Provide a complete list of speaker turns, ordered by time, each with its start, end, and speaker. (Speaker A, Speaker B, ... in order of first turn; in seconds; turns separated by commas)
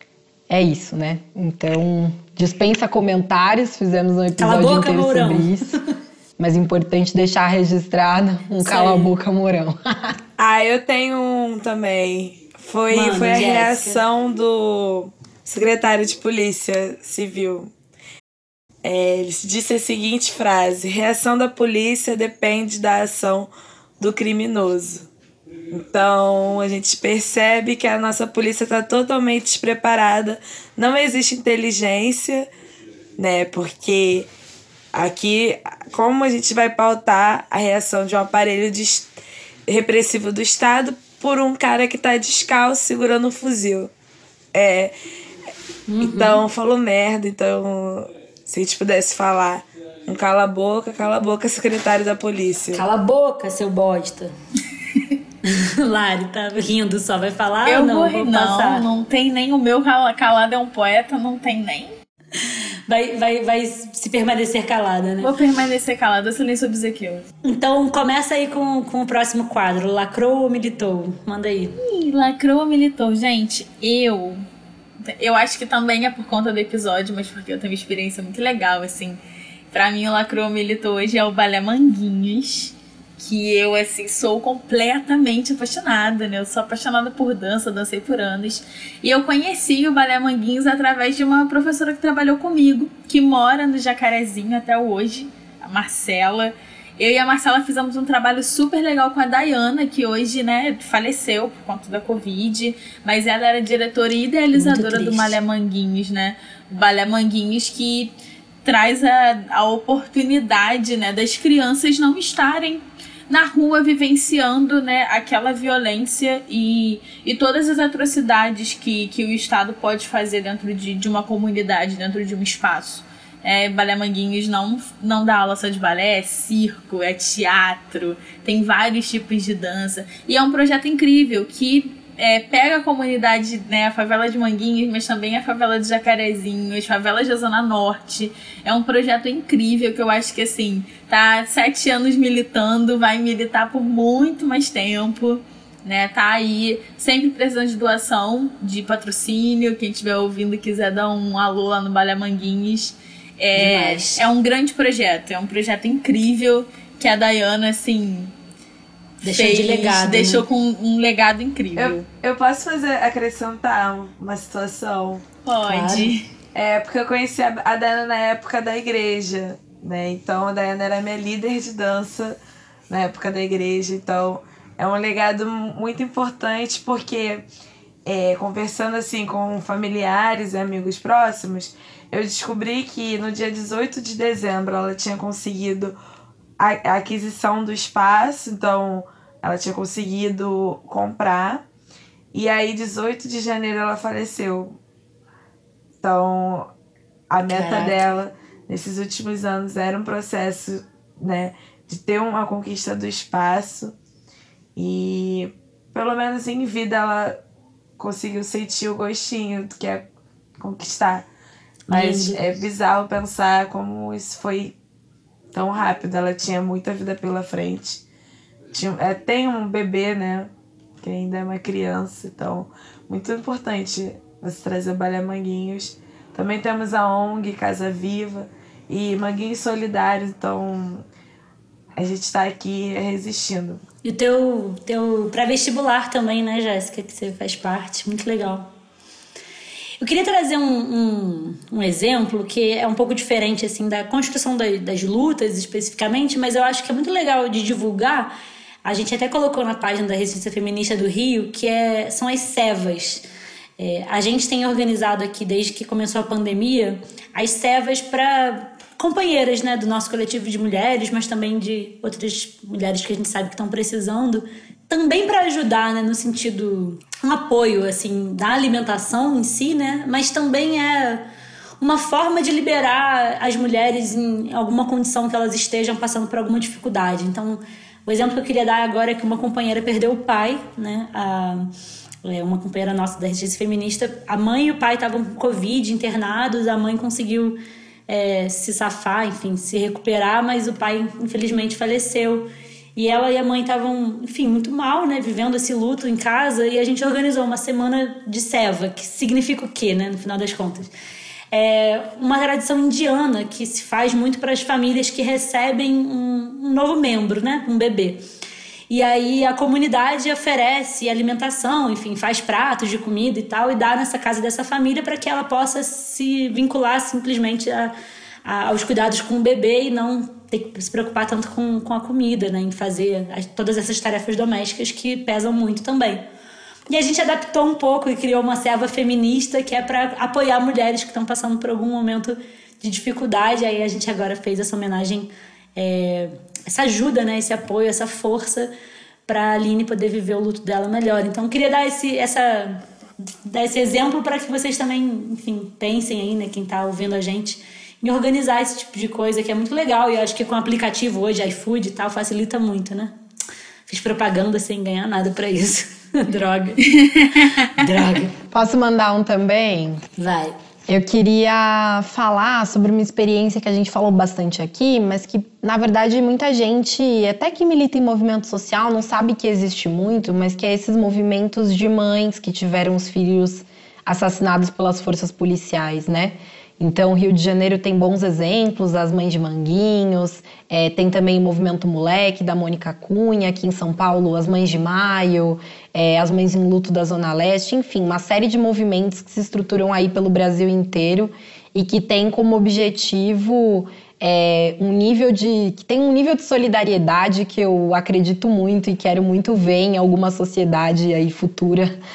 Speaker A: 0.5-5.7, Speaker B: 4.4-5.8, Speaker A: 6.4-10.1, Speaker B: 8.6-9.1, Speaker C: 10.4-17.7, Speaker B: 12.9-14.0, Speaker C: 18.8-25.1, Speaker C: 25.7-32.5, Speaker C: 33.2-34.3, Speaker C: 34.9-39.1, Speaker C: 39.7-43.9, Speaker C: 44.5-44.9, Speaker B: 45.9-46.4, Speaker C: 46.0-52.8, Speaker B: 52.7-54.3, Speaker B: 55.4-58.9, Speaker D: 57.6-61.9, Speaker B: 62.4-65.3, Speaker D: 65.2-67.3, Speaker B: 67.4-71.7, Speaker D: 71.8-74.4, Speaker D: 75.1-79.2, Speaker D: 79.7-108.1, Speaker B: 104.5-105.4, Speaker D: 108.6-158.3, Speaker B: 153.5-154.2, Speaker B: 159.2-160.4, Speaker D: 159.2-162.1, Speaker C: 161.8-165.2, Speaker D: 165.4-166.2, Speaker B: 165.7-166.1, Speaker C: 166.5-172.4, Speaker C: 172.9-177.4, Speaker C: 178.1-185.9, Speaker C: 186.6-191.6, Speaker C: 192.3-194.8, Speaker C: 196.0-196.7, Speaker C: 197.3-203.9, Speaker B: 197.5-198.1, Speaker C: 204.8-207.4, Speaker C: 208.0-210.0, Speaker C: 210.6-211.2, Speaker B: 211.9-212.4, Speaker C: 211.9-214.7, Speaker C: 215.5-218.0, Speaker C: 218.7-231.0, Speaker C: 232.0-233.8, Speaker B: 234.0-238.7, Speaker B: 240.0-253.2, Speaker B: 253.8-271.2, Speaker B: 271.8-281.7, Speaker B: 282.2-300.9, Speaker B: 301.5-308.2, Speaker B: 308.9-326.2, Speaker B: 326.9-338.7, Speaker B: 339.3-342.8, Speaker B: 343.4-353.1, Speaker B: 353.9-356.9, Speaker D: 356.9-357.7, Speaker B: 357.8-358.4, Speaker A: 358.5-360.0, Speaker B: 360.2-360.6, Speaker A: 360.9-401.9